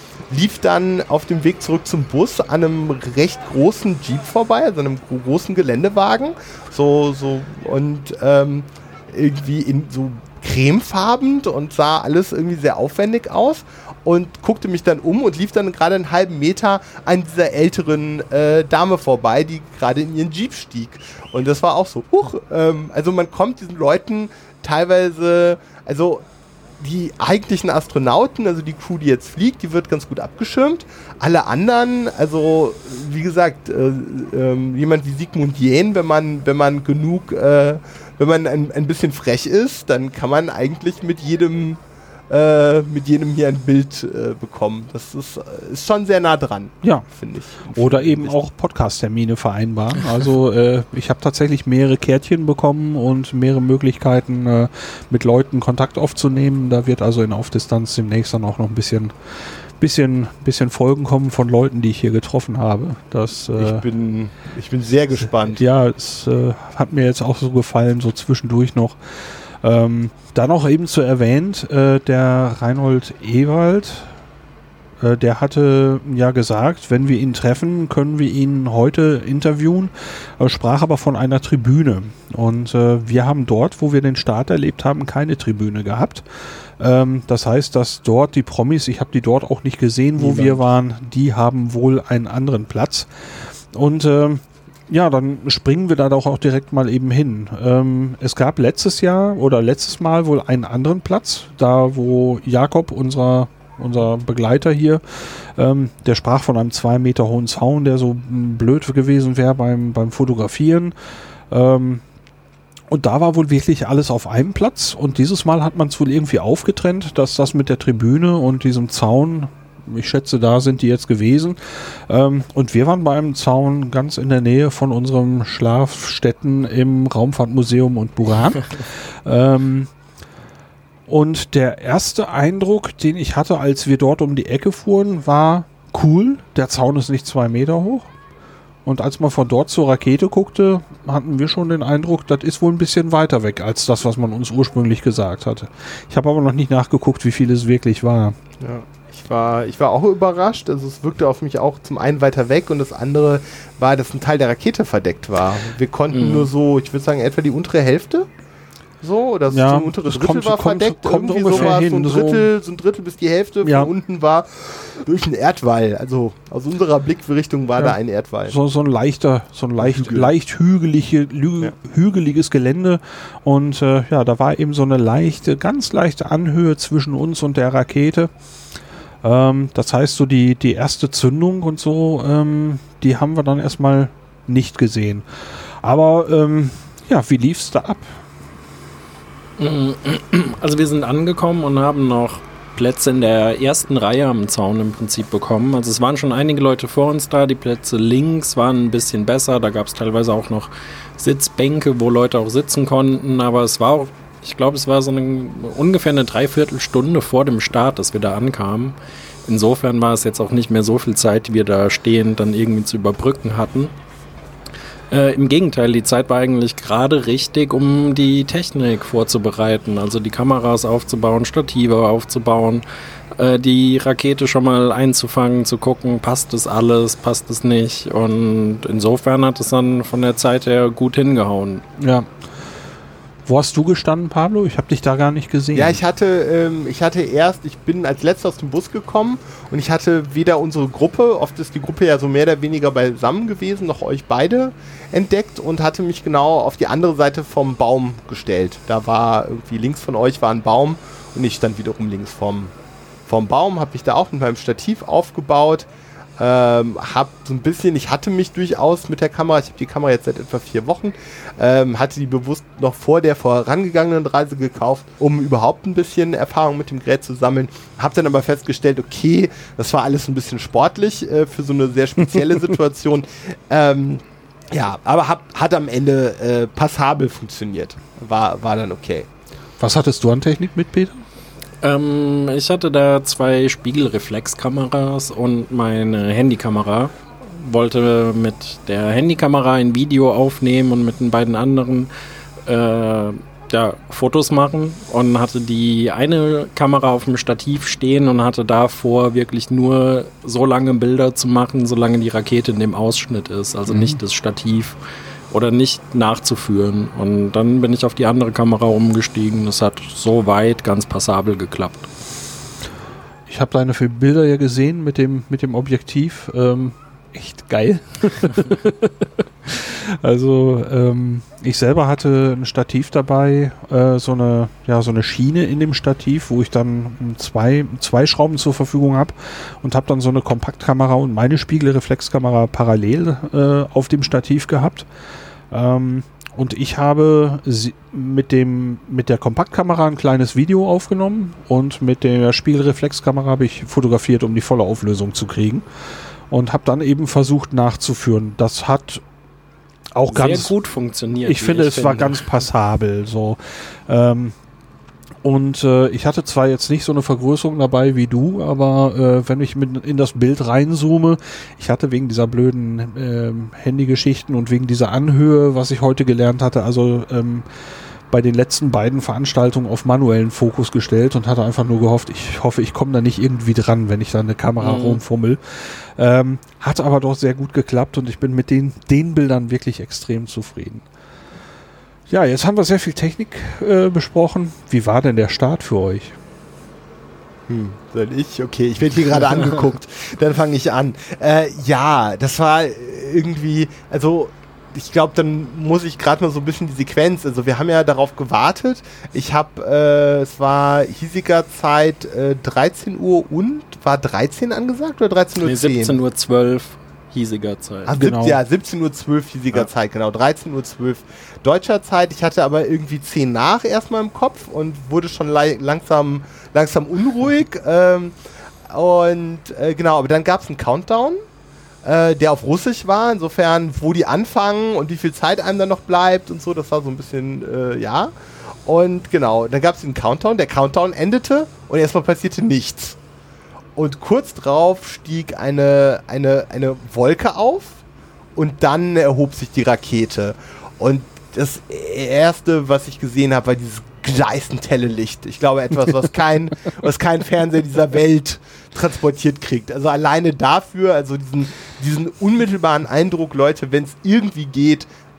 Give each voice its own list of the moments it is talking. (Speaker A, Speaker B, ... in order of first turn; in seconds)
Speaker A: 0.3-26.2, 26.8-41.8, 42.3-48.4, 63.5-65.6, 90.2-90.6, 148.6-158.2, 159.0-168.6, 169.8-170.3, 235.7-252.7, 253.3-255.9, 256.4-279.3, 387.7-406.2, 408.1-418.3, 418.9-421.4, 422.0-428.3, 428.9-433.2, 433.9-438.0, 438.6-455.1
Speaker B: 47.7-63.8, 65.5-74.1, 75.0-110.9, 111.5-112.0, 112.9-129.9, 131.1-138.1, 138.8-148.3, 159.5-162.5, 163.6-163.9, 168.5-178.3, 179.2-188.2, 232.0-232.3, 233.4-236.0, 279.8-281.2, 303.9-304.2, 313.5-335.1, 335.7-349.2, 350.1-350.7, 351.3-354.5, 355.4-367.7, 368.3-381.0, 382.3-386.4, 408.2-408.6
Speaker C: 156.1-156.5, 189.6-208.9, 209.5-213.9, 215.1-222.8, 223.3-231.8, 281.8-292.1, 292.6-305.0, 305.5-312.1, 350.3-352.4, 374.8-375.2, 405.6-408.1